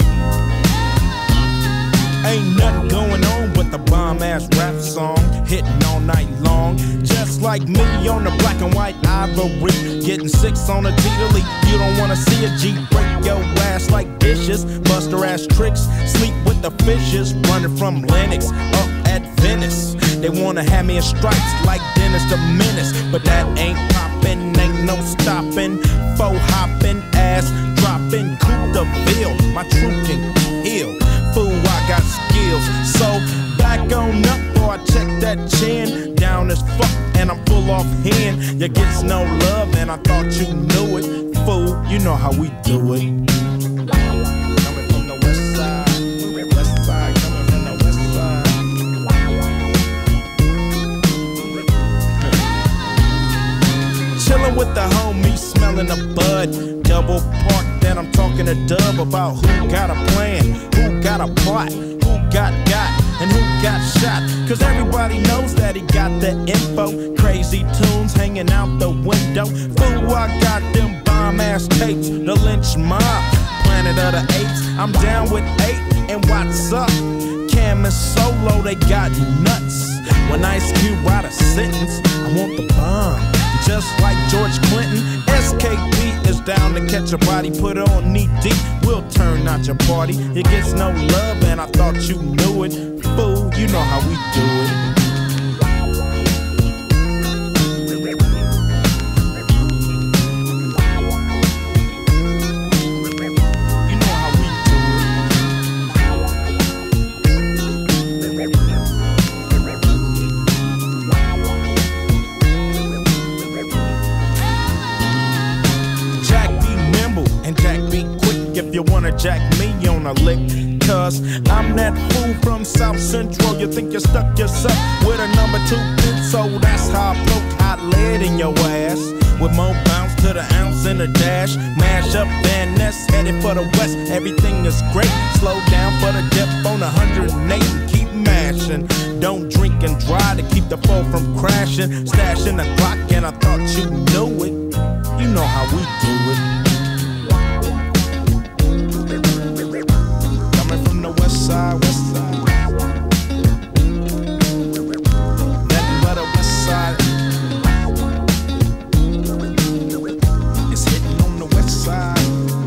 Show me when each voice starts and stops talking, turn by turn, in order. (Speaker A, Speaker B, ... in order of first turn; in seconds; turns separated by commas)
Speaker A: 2.2-43.5, Speaker A: 44.6-48.6, Speaker A: 54.1-94.8, Speaker A: 103.8-105.2, Speaker A: 116.2-144.6, Speaker A: 145.1-146.5, Speaker A: 150.5-152.6, Speaker A: 155.6-157.1, Speaker A: 160.7-162.4